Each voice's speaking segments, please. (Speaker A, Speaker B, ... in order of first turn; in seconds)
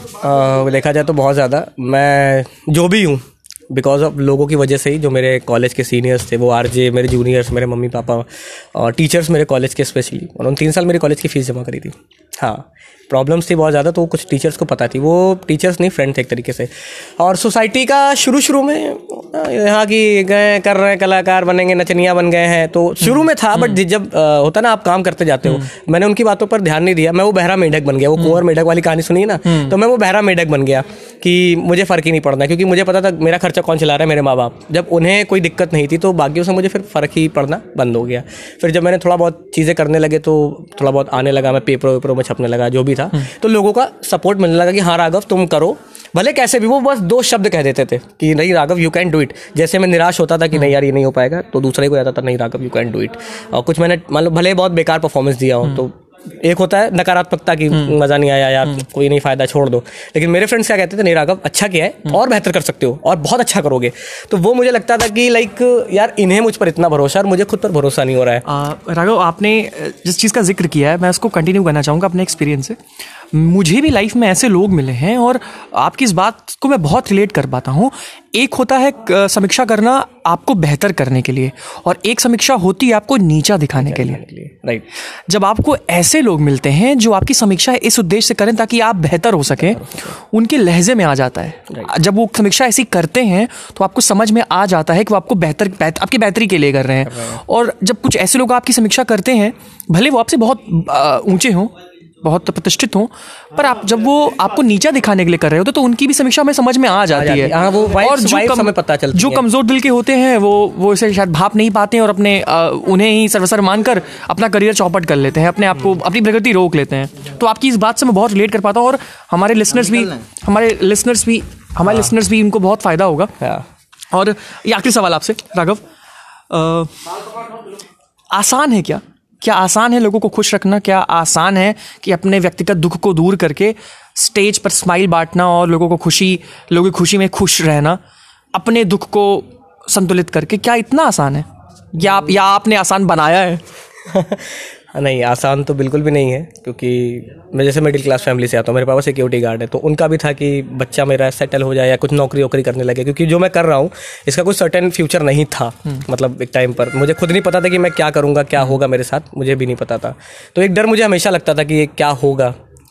Speaker A: 0.2-68.5, 83.8-84.8, 89.7-90.1, 107.1-109.4, 144.1-162.5
Speaker B: 68.5-72.8, 73.3-84.2, 85.3-123.3, 124.1-125.8, 126.5-126.9, 128.3-138.0, 138.5-143.6